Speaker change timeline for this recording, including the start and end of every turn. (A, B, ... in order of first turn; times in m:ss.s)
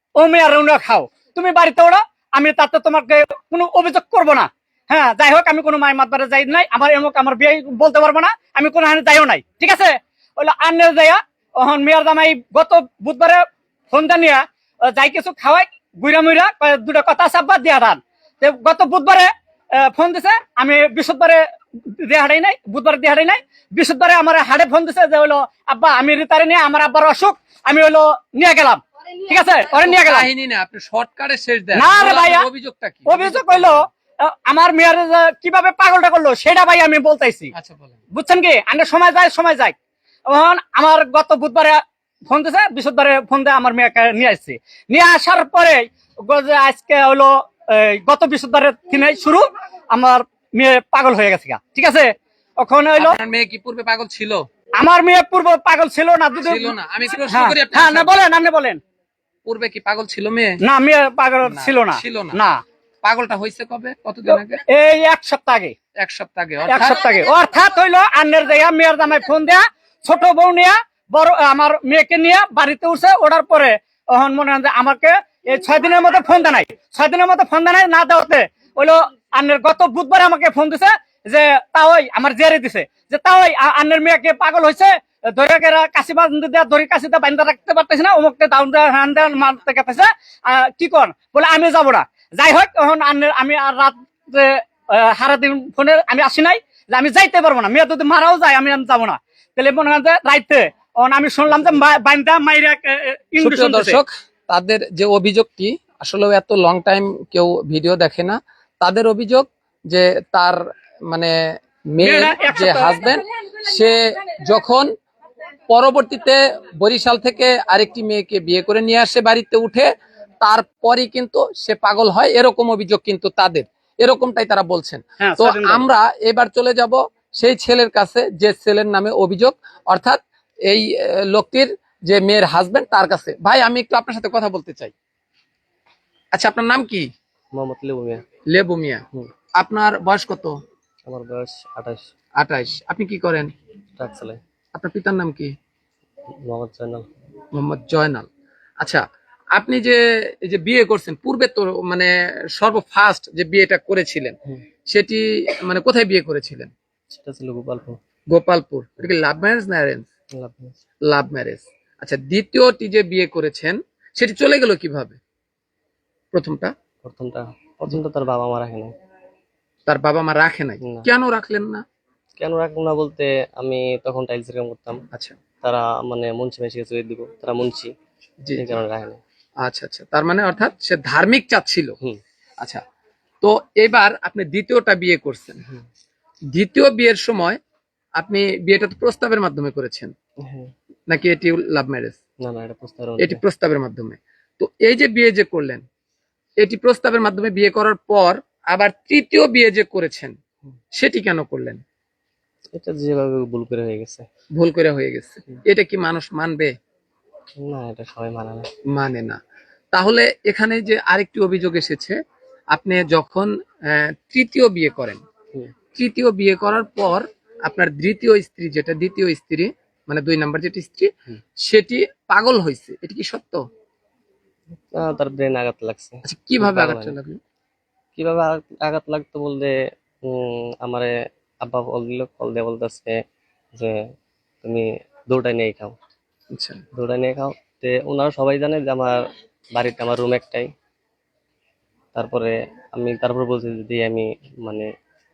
0:00.2-0:30.3 A
0:29.8-0:33.8 B
0:31.8-0:32.5 A
0:33.1-0:37.5 A
0:37.5-0:38.0 B
0:38.1-0:39.8 A
0:40.3-0:53.2 A
0:53.0-0:54.4 B
0:54.8-0:58.8 A
0:56.4-0:58.1 B
0:59.5-1:00.6 B
1:00.6-1:02.6 A
1:01.4-1:02.4 B
1:03.0-1:04.6 B
1:04.3-1:05.8 A
1:06.0-1:07.1 B
1:06.7-1:44.0 A
1:43.4-1:54.9 B
1:52.0-1:53.1 A
1:55.7-2:14.9 B
2:05.2-2:05.8 A
2:16.3-2:17.1 B
2:17.5-2:18.2 C
2:18.5-2:19.0 B
2:19.6-2:20.6 B
2:21.1-2:22.1 C
2:22.4-2:23.5 B
2:24.0-2:24.4 C
2:24.8-2:25.5 B
2:26.3-2:27.1 C
2:27.6-2:28.3 B
2:29.6-2:34.4 B
2:34.9-2:36.7 B
2:37.1-2:38.0 C
2:38.3-2:40.1 B
2:40.3-2:40.8 C
2:41.1-2:45.2 B
2:46.3-2:46.7 B
2:47.0-2:49.0 C
2:49.9-2:51.8 B
2:50.8-2:51.1 C
2:52.4-2:55.0 C
2:55.6-2:57.9 C
2:58.4-2:58.8 B
2:58.6-2:59.2 C
2:59.6-3:02.0 B
3:03.4-3:05.7 B
3:06.5-3:07.6 B
3:08.2-3:10.1 B
3:10.4-3:10.7 C
3:11.1-3:12.2 B
3:12.4-3:13.4 C
3:13.2-3:15.8 B
3:16.6-3:20.4 B
3:21.0-3:21.8 B
3:22.7-3:24.3 C
3:24.6-3:26.7 B
3:27.6-3:28.7 C
3:28.9-3:29.4 B
3:29.9-3:32.2 B
3:32.7-3:35.2 B
3:36.0-3:41.1 B
3:41.6-3:43.6 B
3:44.8-3:47.2 C
3:46.2-3:47.4 B
3:48.2-3:53.2 C
3:53.8-3:54.0 C
3:54.6-3:56.0 C
3:56.5-3:56.8 B
3:56.9-3:59.2 C
3:59.7-4:00.7 C
4:02.1-4:04.9 C